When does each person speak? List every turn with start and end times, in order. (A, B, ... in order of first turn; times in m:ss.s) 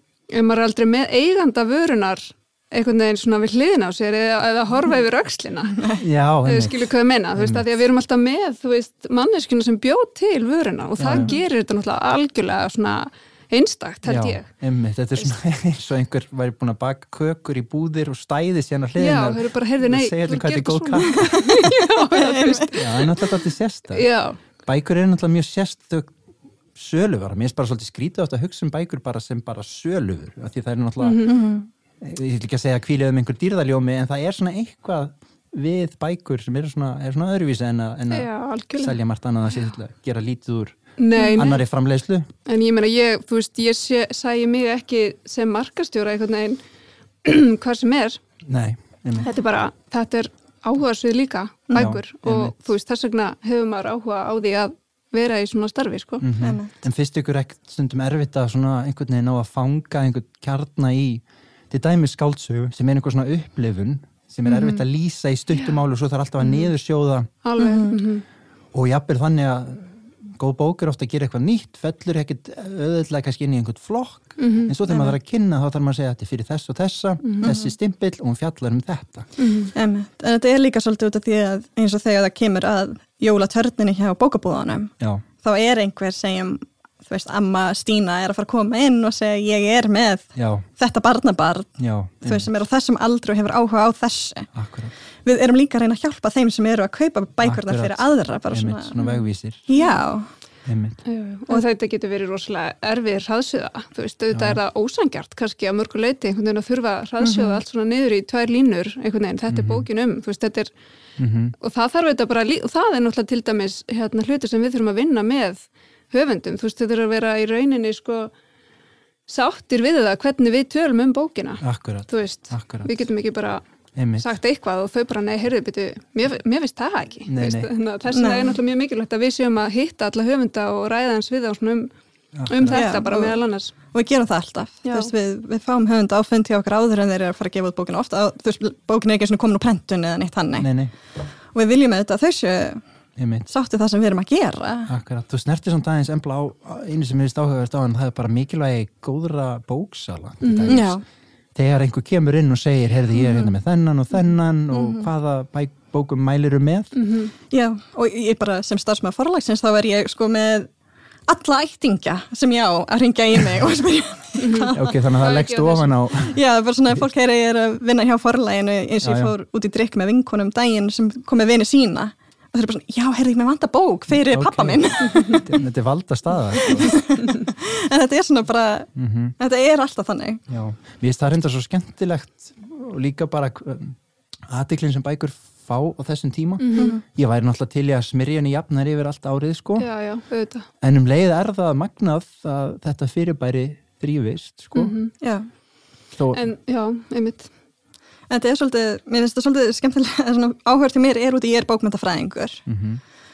0:00.3-0:05.9 A
0:06.0-0:07.7 B
0:06.4-0:14.5 A
0:11.0-0:11.4 B
0:14.0-0:21.5 B
0:19.0-0:23.3 A
0:22.1-0:22.7 C
0:22.7-0:24.1 B
0:23.9-0:24.4 A
0:24.6-0:26.1 B
0:26.8-0:31.4 B
0:31.0-0:31.4 A
0:31.3-0:31.7 C
0:32.0-0:42.3 B
0:38.1-0:39.0 A
0:41.0-0:41.6 A
0:42.5-0:46.6 A
0:47.2-0:48.2 A
0:48.4-0:49.3 B
0:49.2-0:56.3 A
0:51.7-0:52.0 C
0:51.7-0:52.6 B
0:56.2-1:07.3 B
0:56.4-0:56.7 C
1:04.4-1:04.8 A
1:07.4-1:08.2 A
1:07.6-1:08.0 C
1:08.7-1:19.3 B
1:14.4-1:14.7 A
1:14.9-1:15.2 C
1:17.2-1:17.5 A
1:17.4-1:17.7 C
1:19.4-1:19.7 A
1:19.8-1:34.5 C
1:25.0-1:25.2 B
1:30.4-1:30.7 B
1:31.8-1:32.5 B
1:34.5-1:34.9 B
1:35.2-1:39.0 C
1:37.4-1:39.7 B
1:39.7-1:40.3 C
1:39.8-1:40.0 A
1:40.7-1:41.0 B
1:41.0-1:50.7 A
1:44.3-1:44.6 B
1:47.2-1:47.6 C
1:49.5-1:49.9 B
1:51.2-1:51.5 B
1:51.6-1:58.3 A
1:59.3-2:03.6 A
2:01.6-2:03.0 B
2:04.0-2:04.3 B
2:04.2-2:11.9 A
2:07.3-2:07.7 B
2:08.1-2:08.6 C
2:12.4-2:12.9 B
2:12.5-2:13.8 A
2:12.7-2:20.7 C
2:14.9-2:15.1 A
2:20.6-2:20.9 B
2:21.5-2:22.8 C
2:23.2-2:23.5 B
2:23.5-2:24.9 C
2:24.9-2:31.0 B
2:30.4-2:30.9 A
2:30.7-2:31.0 C
2:31.6-2:36.9 B
2:34.7-2:35.1 C
2:36.9-2:37.4 A
2:37.5-2:40.7 C
2:41.3-2:44.8 C
2:44.4-2:46.0 A
2:44.7-2:46.4 B
2:46.3-2:55.5 C
2:49.0-2:49.4 B
2:54.1-2:57.0 B
2:56.6-3:00.4 C
2:59.0-2:59.4 B
3:00.5-3:04.0 B
3:04.5-3:09.9 B
3:06.6-3:07.0 A
3:06.8-3:07.0 C
3:09.8-3:10.7 A
3:10.8-3:14.9 B
3:14.7-3:15.2 A
3:15.2-3:15.5 C
3:16.1-3:16.4 B
3:16.3-3:17.5 A
3:18.3-3:22.6 C
3:22.7-3:23.0 B